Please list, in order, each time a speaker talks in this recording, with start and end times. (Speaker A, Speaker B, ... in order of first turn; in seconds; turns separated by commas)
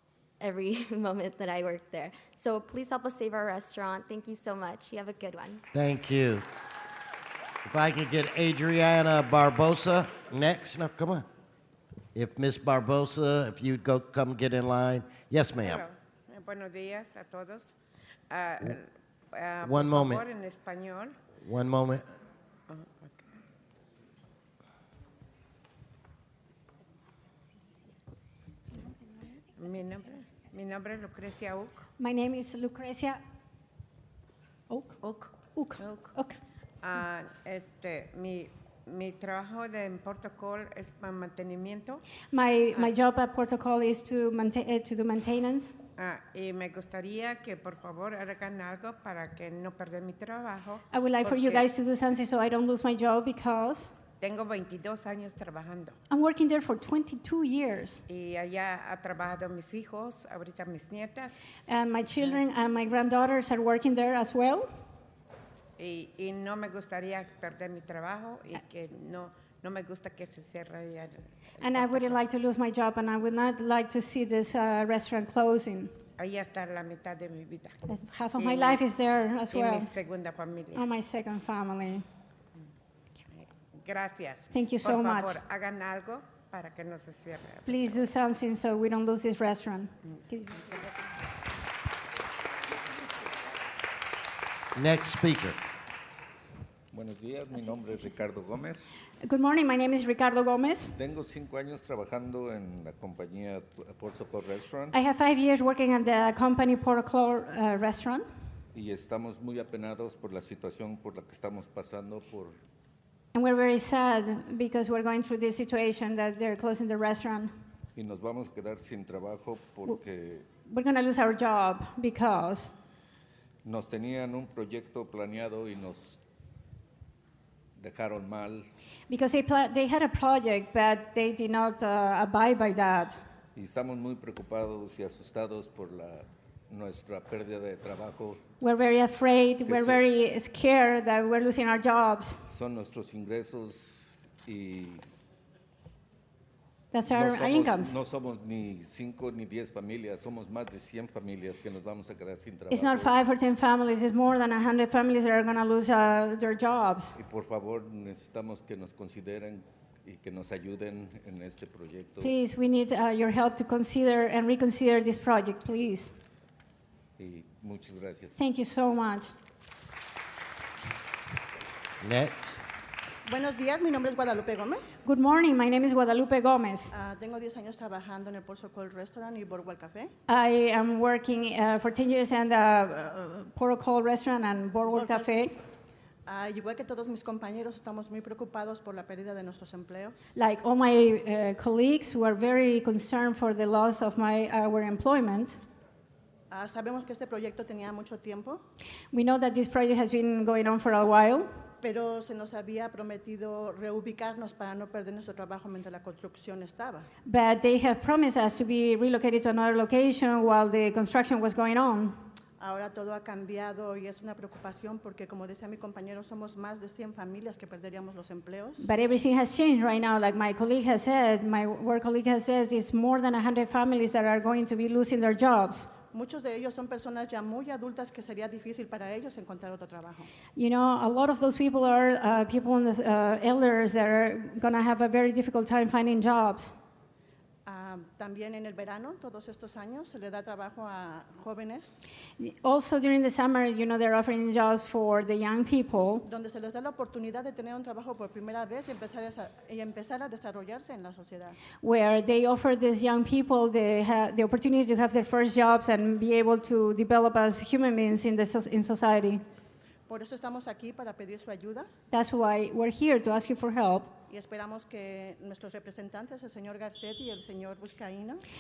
Speaker A: 0.4-5.6, Speaker B: 5.7-6.4, Speaker B: 7.6-11.2, Speaker B: 12.1-15.8, Speaker C: 15.6-17.8, Speaker C: 18.3-21.2, Speaker B: 19.6-20.2, Speaker B: 21.4-22.0, Speaker C: 22.7-23.3, Speaker C: 29.6-31.9, Speaker D: 32.0-33.2, Speaker D: 34.7-35.0, Speaker C: 35.0-36.1, Speaker D: 35.5-36.4, Speaker C: 36.8-42.0, Speaker D: 42.3-45.8, Speaker C: 46.0-51.7, Speaker D: 50.9-53.9, Speaker C: 54.2-56.0, Speaker D: 56.1-58.0, Speaker C: 58.1-61.5, Speaker D: 61.7-64.7, Speaker C: 65.8-72.2, Speaker D: 71.6-75.9, Speaker C: 76.2-77.8, Speaker D: 77.9-79.9, Speaker C: 78.4-78.8, Speaker C: 79.5-80.8, Speaker D: 80.7-82.0, Speaker C: 83.4-88.0, Speaker D: 84.5-85.4, Speaker D: 87.7-90.8, Speaker B: 94.7-95.6, Speaker E: 96.9-98.9, Speaker D: 99.2-101.0, Speaker E: 100.9-105.0, Speaker D: 104.9-108.2, Speaker E: 108.7-112.6, Speaker D: 113.3-117.5, Speaker E: 118.0-120.5, Speaker D: 120.6-122.7, Speaker E: 123.6-126.2, Speaker E: 127.8-128.7, Speaker D: 129.1-133.2, Speaker E: 133.6-138.4, Speaker D: 138.6-142.4, Speaker E: 139.7-140.0, Speaker E: 142.4-145.1, Speaker D: 146.9-148.0, Speaker E: 147.1-153.2, Speaker D: 152.7-157.2, Speaker E: 157.2-162.3, Speaker D: 162.2-166.1, Speaker E: 167.2-168.4, Speaker D: 168.4-169.3, Speaker B: 172.0-172.5, Speaker F: 173.2-175.0, Speaker D: 175.0-176.9, Speaker F: 176.9-180.1, Speaker D: 180.3-185.6, Speaker F: 184.8-185.2, Speaker F: 186.3-190.2, Speaker D: 190.3-195.6, Speaker F: 196.5-198.6, Speaker D: 199.1-201.5, Speaker F: 201.8-207.1, Speaker D: 207.2-212.2, Speaker F: 212.6-218.9, Speaker D: 218.8-225.9, Speaker F: 226.1-230.3, Speaker D: 230.6-236.8, Speaker F: 237.7-242.0, Speaker D: 242.4-246.2, Speaker F: 246.3-251.6, Speaker D: 251.8-259.4, Speaker F: 260.1-261.9, Speaker D: 262.1-264.1, Speaker F: 264.3-268.4